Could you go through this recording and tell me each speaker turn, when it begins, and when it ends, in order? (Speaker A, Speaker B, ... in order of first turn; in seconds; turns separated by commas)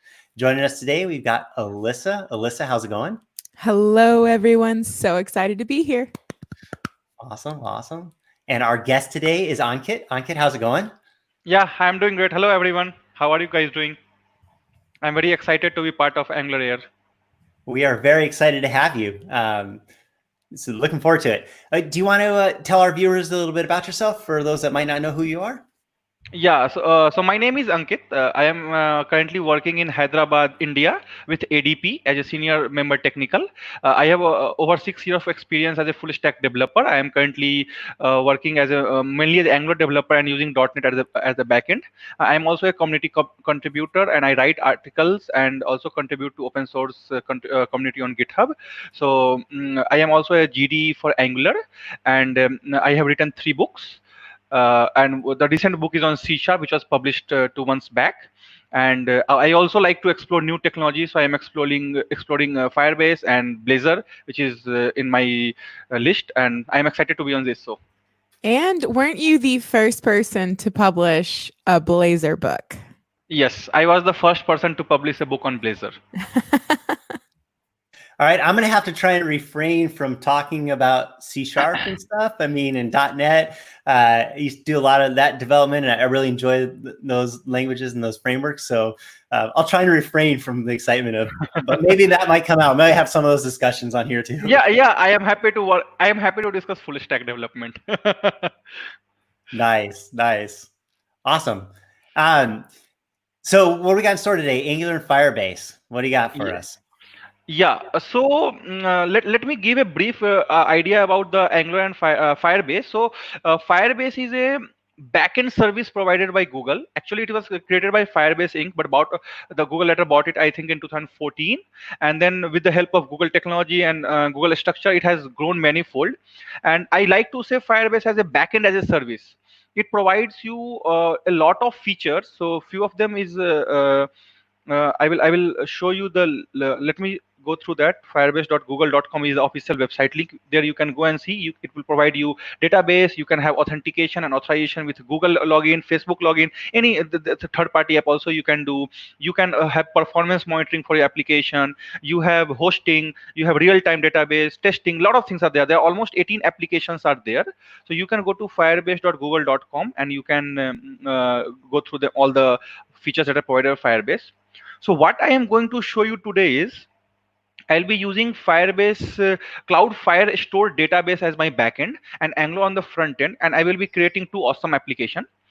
Speaker A: 0.4-3.2, Speaker B: 3.6-6.1, Speaker A: 7.2-10.9, Speaker C: 11.5-14.0, Speaker C: 15.0-16.9, Speaker A: 17.7-19.8, Speaker A: 20.5-25.6, Speaker C: 26.4-54.0, Speaker C: 54.5-67.8, Speaker B: 68.4-72.8, Speaker C: 73.3-76.0, Speaker B: 76.3-77.0, Speaker A: 78.2-94.7, Speaker C: 94.4-98.5, Speaker A: 99.5-100.7, Speaker A: 101.2-102.7, Speaker A: 103.4-106.8, Speaker C: 106.3-106.6, Speaker C: 107.5-134.1, Speaker C: 134.7-166.9, Speaker C: 167.7-175.3